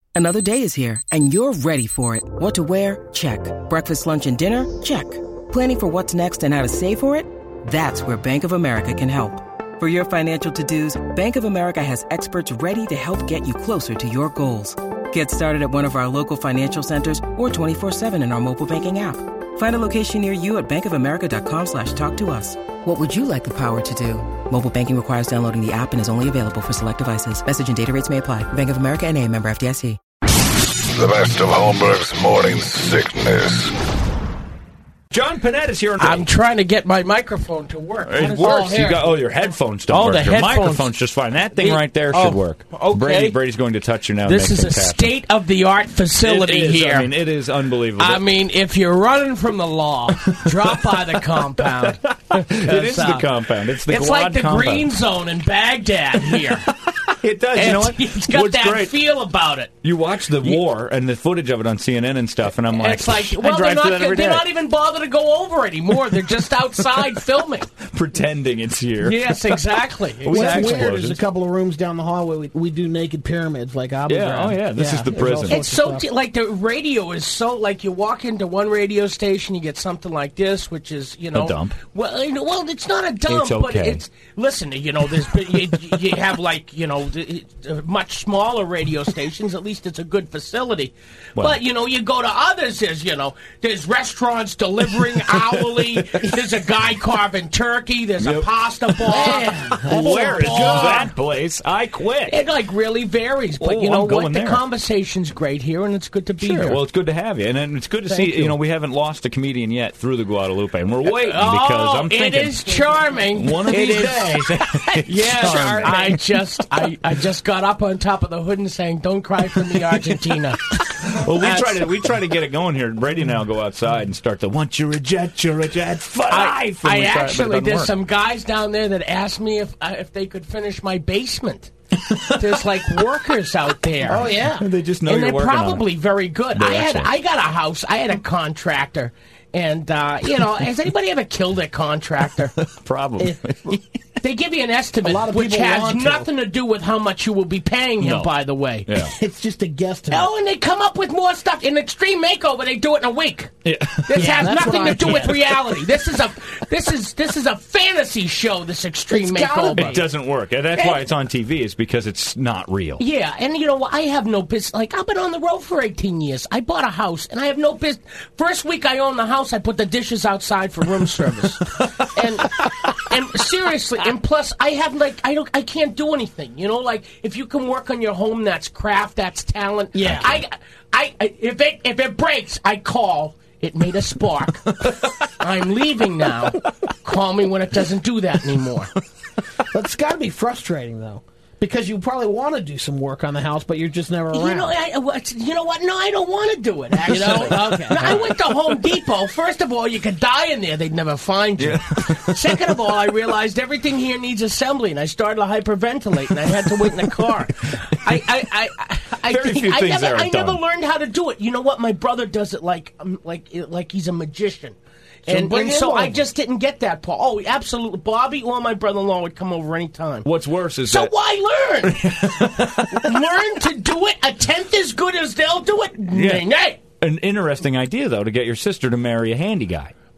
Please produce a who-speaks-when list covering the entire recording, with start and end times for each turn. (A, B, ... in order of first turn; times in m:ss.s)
0:00.2-0:30.0 A
0:30.9-0:33.7 B
0:35.1-0:36.2 C
0:36.0-0:39.2 D
0:38.1-0:45.1 C
0:39.9-0:40.9 D
0:41.5-0:43.4 D
0:44.2-0:47.1 D
0:46.2-0:48.3 C
0:48.0-0:53.3 D
0:50.2-0:54.9 C
0:53.8-0:56.7 D
0:56.3-0:59.0 C
0:57.6-0:59.7 D
0:59.8-1:04.5 C
1:02.7-1:07.7 D
1:07.9-1:11.2 C
1:09.0-1:10.9 D
1:10.3-1:16.0 E
1:14.1-1:15.7 C
1:15.4-1:41.1 D
1:21.3-1:21.8 C
1:23.3-1:24.0 C
1:35.7-1:36.4 C
1:38.2-1:42.4 C
1:39.1-1:41.1 E
1:42.3-1:46.8 D
1:43.6-1:44.6 C
1:46.4-1:56.6 C
1:48.1-1:48.6 D
1:51.0-2:02.0 D
1:55.4-1:56.1 E
1:59.9-2:08.0 C
2:06.3-2:11.7 D
2:12.1-2:12.5 C
2:12.4-2:14.3 D
2:14.1-2:14.7 E
2:14.4-2:15.9 C
2:15.1-2:22.5 D
2:16.6-2:17.1 C
2:22.6-2:23.8 C
2:23.2-2:23.8 E
2:24.2-2:28.9 D
2:25.0-2:26.3 E
2:28.0-2:28.3 C
2:28.9-2:29.1 C
2:29.0-2:30.3 E
2:30.1-2:33.5 D
2:33.6-2:35.1 C
2:34.1-2:40.0 D
2:34.2-2:35.5 E
2:39.1-2:40.0 E
2:39.8-2:43.0 C
2:40.7-2:41.0 D
2:43.0-3:08.9 D
2:52.6-2:53.0 C
2:59.9-3:00.4 E
3:09.7-3:14.7 E
3:14.3-3:40.3 D
3:17.1-3:18.2 E
3:17.1-3:18.4 C
3:21.6-3:22.6 C
3:29.2-3:30.6 C
3:35.3-3:36.2 E
3:40.2-3:41.1 C
3:40.9-3:46.8 D
3:41.8-3:43.2 C
3:46.1-3:46.5 C
3:47.0-3:49.9 C